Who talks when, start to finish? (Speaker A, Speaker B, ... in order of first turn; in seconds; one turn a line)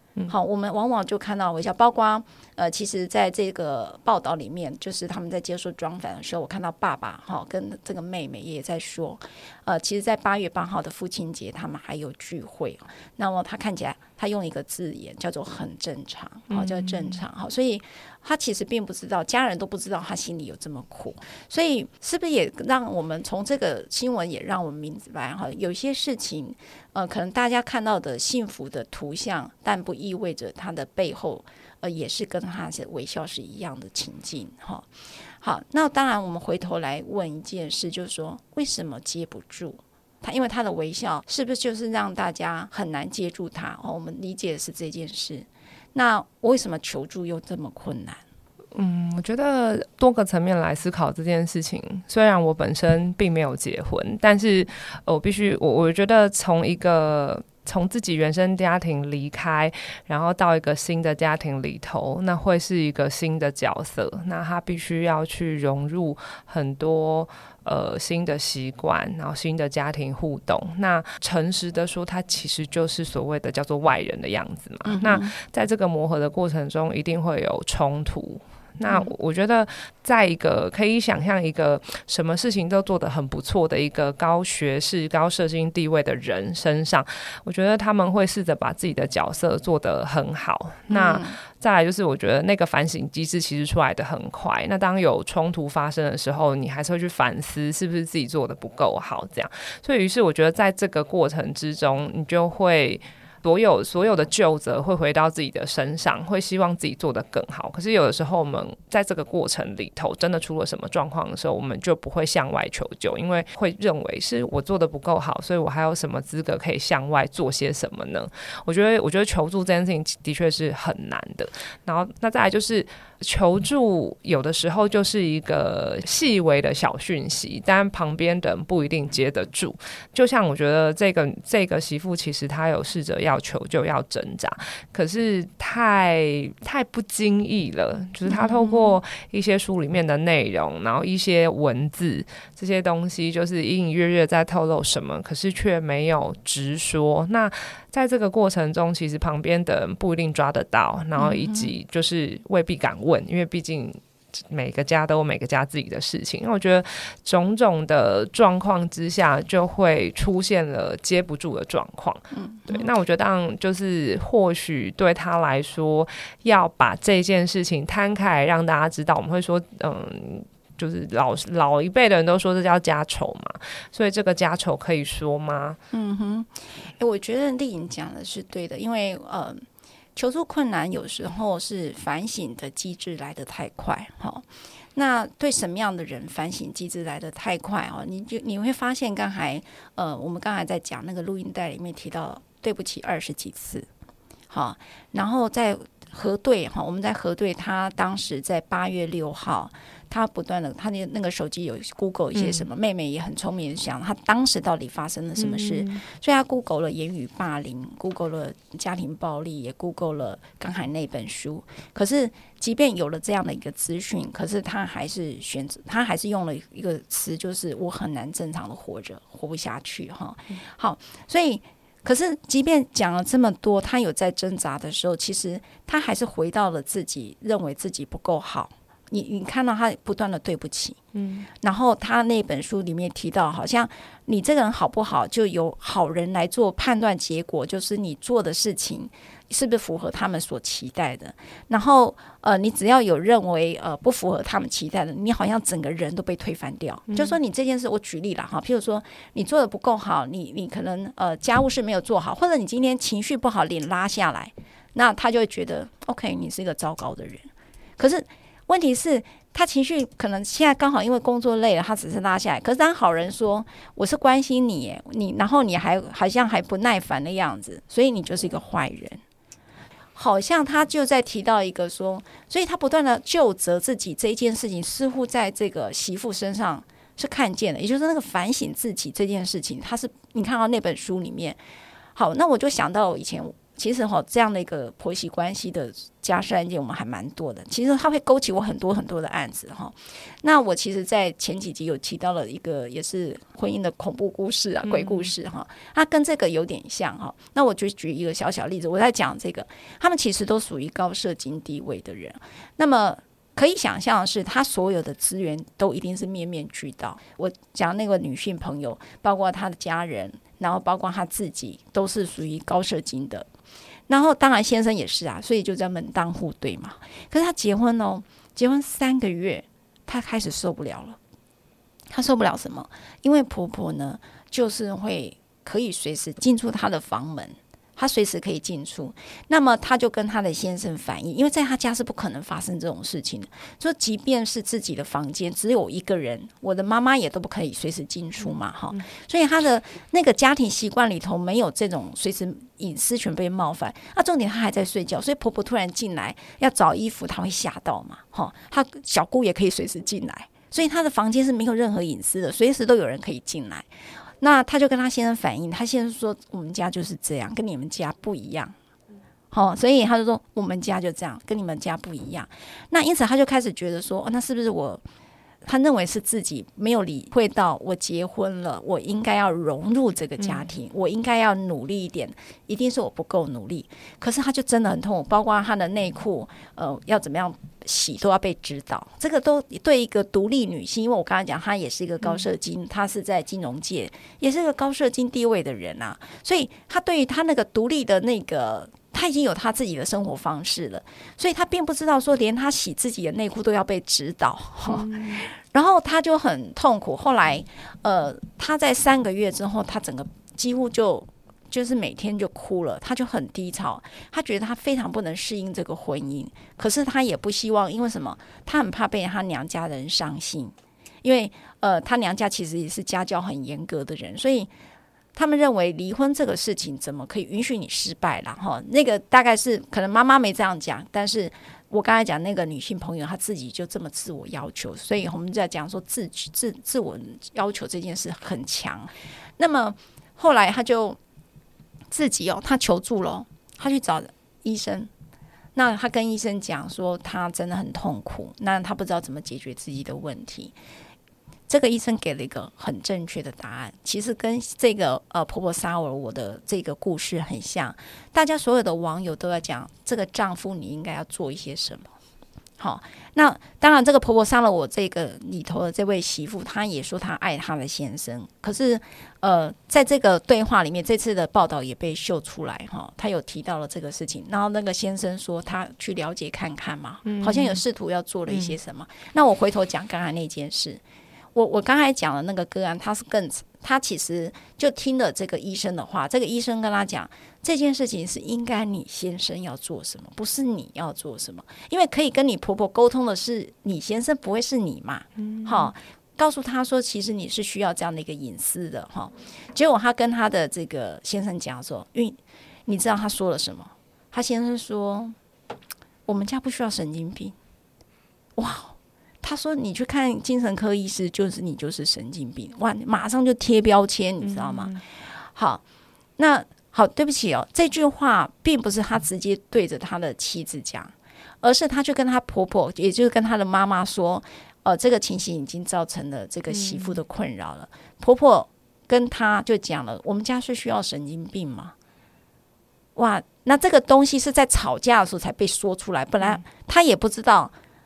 Speaker A: 0.3-34.9
Speaker B: 16.5-17.2
Speaker A: 35.4-48.2
Speaker B: 48.7-175.8
Speaker A: 74.8-75.3
Speaker A: 78.8-79.1
Speaker A: 90.9-91.4
Speaker A: 138.2-139.0
Speaker A: 151.2-151.7
Speaker A: 162.3-162.9
Speaker A: 175.9-179.6
Speaker A: 180.2-193.9
Speaker A: 194.5-231.0
Speaker B: 202.3-202.6
Speaker B: 205.4-206.0
Speaker B: 231.1-231.5
Speaker A: 231.6-269.2
Speaker B: 247.1-247.3
Speaker A: 270.1-281.6
Speaker A: 282.1-313.5
Speaker B: 294.8-295.3
Speaker A: 314.1-321.2
Speaker A: 322.1-353.9
Speaker A: 354.4-358.7
Speaker A: 359.5-365.0
Speaker A: 365.6-414.7
Speaker B: 370.4-370.7
Speaker B: 394.9-395.5
Speaker A: 415.3-431.2
Speaker A: 432.1-435.1
Speaker A: 435.7-440.7
Speaker A: 441.7-452.1
Speaker A: 452.8-471.0
Speaker B: 467.2-467.8
Speaker B: 468.5-468.8
Speaker A: 471.5-495.4
Speaker B: 485.4-485.9
Speaker A: 496.2-497.5
Speaker A: 498.6-505.8
Speaker B: 504.4-505.0
Speaker A: 506.4-521.9
Speaker B: 516.7-517.2
Speaker A: 523.1-527.7